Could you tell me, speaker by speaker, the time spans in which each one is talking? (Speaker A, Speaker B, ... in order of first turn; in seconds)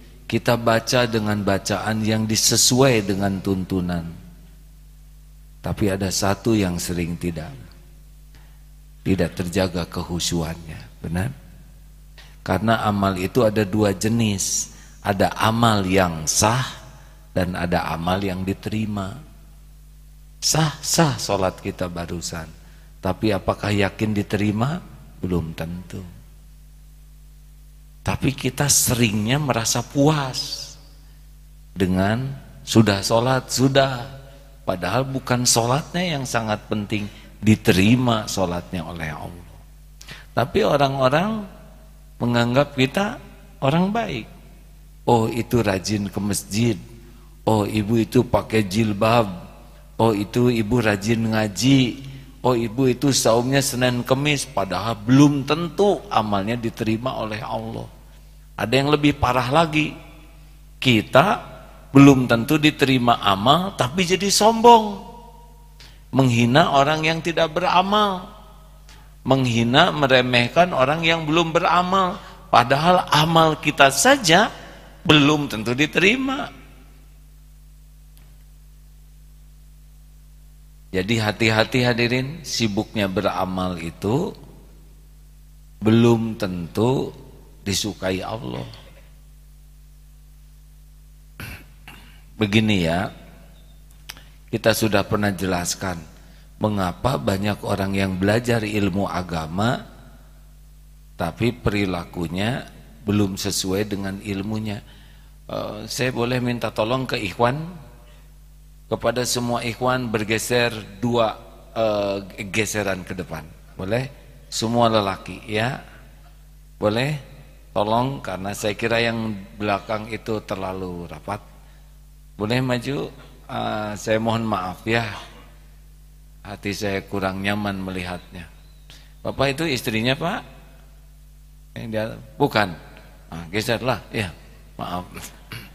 Speaker A: 0.3-4.1, 5.6-7.6, 9.1-11.3, 12.5-14.5, 15.1-16.7, 17.4-19.1, 20.5-22.5, 23.0-26.1, 28.1-30.8, 31.8-34.1, 34.7-39.6, 40.4-41.4, 42.2-43.1, 43.6-44.3, 45.1-46.8, 47.5-49.3, 50.0-51.9, 52.4-57.9, 58.6-59.9, 60.8-61.3, 61.9-65.0, 66.2-68.2, 69.3-74.5, 75.1-76.5, 80.9-84.2, 85.8-87.0, 87.7-88.7, 92.4-93.1, 94.5-96.0, 96.6-99.7, 101.2-102.5, 103.1-104.8, 105.5-107.6, 108.9-115.7, 116.8-117.2, 117.8-121.4, 122.4-125.1, 126.5-128.5, 129.2-130.4, 131.8-132.8, 133.3-135.3